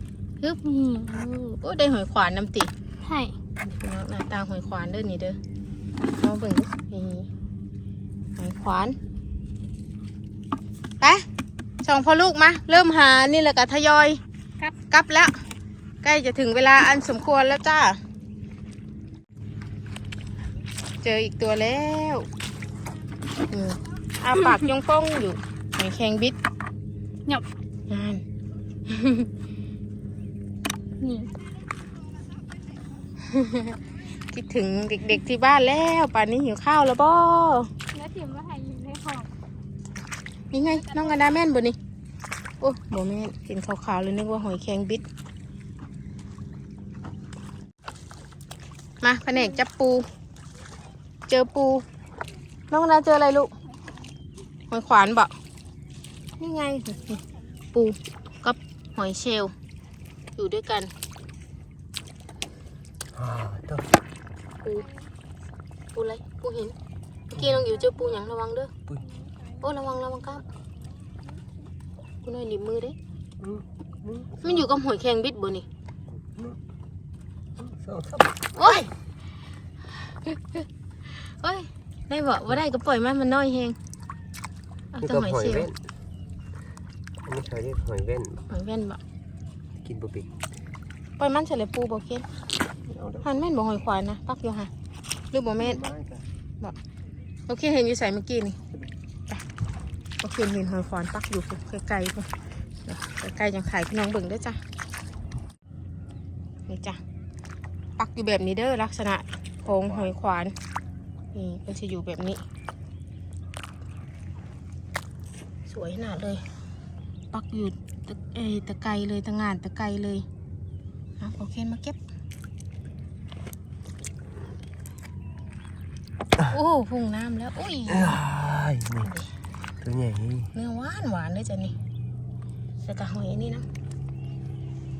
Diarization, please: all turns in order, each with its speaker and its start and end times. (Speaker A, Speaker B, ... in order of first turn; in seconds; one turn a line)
Speaker A: 0.4-1.1
Speaker B: 1.0-2.7
Speaker A: 3.0-3.3
Speaker B: 3.6-5.4
Speaker B: 6.2-7.3
Speaker B: 8.4-9.0
Speaker B: 11.8-14.2
Speaker B: 14.8-15.3
Speaker B: 16.0-18.0
Speaker B: 21.0-22.3
Speaker B: 23.5-26.4
Speaker B: 27.9-28.2
Speaker B: 28.9-29.3
Speaker A: 31.0-31.3
Speaker B: 33.2-33.8
Speaker B: 34.3-37.7
Speaker A: 37.9-39.3
Speaker B: 40.5-41.8
Speaker A: 40.7-41.3
Speaker B: 42.6-45.0
Speaker B: 49.0-50.0
Speaker B: 51.3-51.8
Speaker B: 52.7-53.5
Speaker B: 54.7-55.3
Speaker B: 56.4-57.2
Speaker B: 57.7-59.5
Speaker B: 60.4-60.9
Speaker C: 63.1-63.9
Speaker B: 65.9-66.7
Speaker B: 67.3-68.7
Speaker C: 67.4-67.7
Speaker B: 69.6-70.4
Speaker B: 72.2-73.0
Speaker C: 73.4-74.7
Speaker B: 74.4-75.7
Speaker C: 76.1-76.6
Speaker C: 77.6-78.4
Speaker B: 78.5-78.9
Speaker B: 80.2-80.6
Speaker B: 81.2-83.8
Speaker B: 84.9-85.7
Speaker C: 85.0-85.8
Speaker C: 87.2-88.5
Speaker B: 88.5-89.0
Speaker C: 89.8-90.3
Speaker B: 91.2-92.2
Speaker C: 92.8-93.4
Speaker B: 93.2-94.7
Speaker B: 95.3-95.8
Speaker C: 95.6-96.2
Speaker B: 97.5-98.6
Speaker B: 100.2-102.3
Speaker B: 102.8-104.6
Speaker B: 106.7-107.0
Speaker B: 108.0-110.5
Speaker C: 109.6-110.1
Speaker B: 111.3-112.4
Speaker B: 115.7-116.4
Speaker B: 117.3-120.2
Speaker B: 121.2-122.0
Speaker B: 126.5-128.2
Speaker C: 127.9-129.1
Speaker B: 129.0-129.3
Speaker C: 129.8-130.5
Speaker B: 130.5-131.7
Speaker B: 132.8-133.6